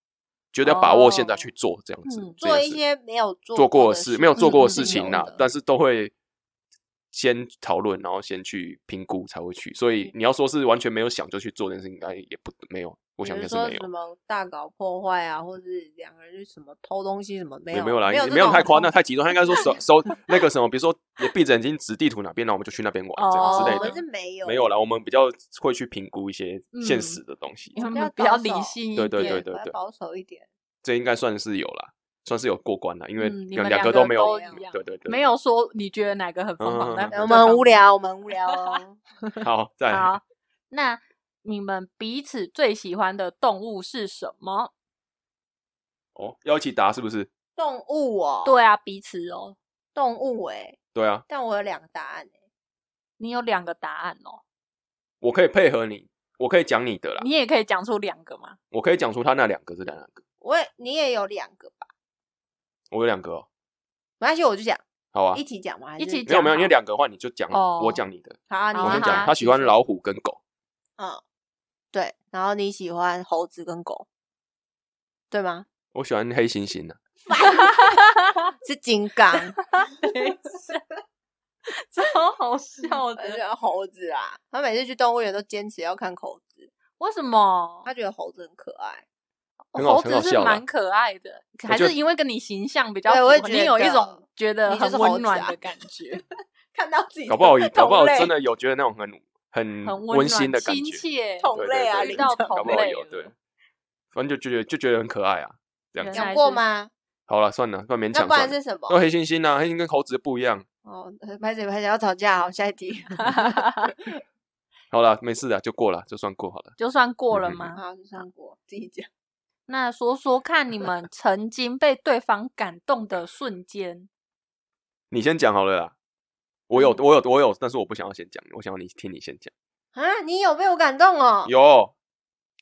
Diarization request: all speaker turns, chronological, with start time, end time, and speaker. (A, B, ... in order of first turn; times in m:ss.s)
0:00.5-0:02.8 A
0:00.6-0:01.4 B
0:02.0-0:02.4 B
0:02.4-0:05.4 C
0:03.6-0:06.1 A
0:04.4-0:05.2 B
0:07.1-0:13.9 A
0:13.2-0:18.9 C
0:17.7-0:23.9 A
0:23.2-0:24.0 B
0:23.4-0:24.6 C
0:24.4-0:27.8 A
0:26.7-0:27.2 B
0:27.8-0:29.4 B
0:27.8-0:30.5 C
0:29.0-0:29.8 A
0:30.8-0:35.2 A
0:33.2-0:37.8 B
0:33.9-0:34.7 C
0:36.6-0:37.1 A
0:37.1-0:39.0 C
0:39.4-0:40.1 A
0:39.9-0:44.7 B
0:46.2-0:47.3 A
0:47.6-0:48.6 C
0:48.4-0:49.6 B
0:50.0-0:50.8 C
0:51.0-0:51.2 A
0:51.3-0:52.3 C
0:53.2-0:54.4 B
0:55.2-0:57.3 A
0:57.2-0:58.6 B
0:58.7-1:00.2 A
1:00.4-1:01.9 C
1:02.9-1:03.5 A
1:04.2-1:06.3 C
1:05.1-1:05.4 A
1:06.0-1:06.7 B
1:06.3-1:10.4 A
1:07.5-1:08.0 B
1:08.5-1:09.8 C
1:08.7-1:09.3 B
1:11.9-1:14.1 C
1:15.3-1:15.7 C
1:15.9-1:17.0 A
1:17.3-1:17.9 C
1:17.3-1:18.5 B
1:18.6-1:19.6 C
1:19.6-1:20.8 B
1:21.7-1:23.4 B
1:23.2-1:26.7 C
1:27.0-1:27.9 B
1:27.9-1:29.0 C
1:29.7-1:36.2 B
1:29.8-1:30.6 A
1:31.7-1:31.9 A
1:33.1-1:35.6 C
1:36.7-1:38.3 C
1:37.3-1:41.0 A
1:39.8-1:43.3 B
1:41.4-1:42.8 C
1:41.5-1:43.3 A
1:44.1-1:46.2 A
1:46.0-1:46.6 B
1:46.1-1:46.9 C
1:47.3-1:50.6 A
1:48.1-1:49.0 C
1:50.8-1:54.1 C
1:53.2-1:53.9 B
1:54.9-1:56.7 A
1:56.8-1:57.8 B
1:57.3-1:57.6 A
1:57.8-1:59.1 C
1:59.7-2:04.1 B
2:05.1-2:06.0 A
2:06.7-2:09.5 A
2:10.0-2:11.5 C
2:11.5-2:11.9 A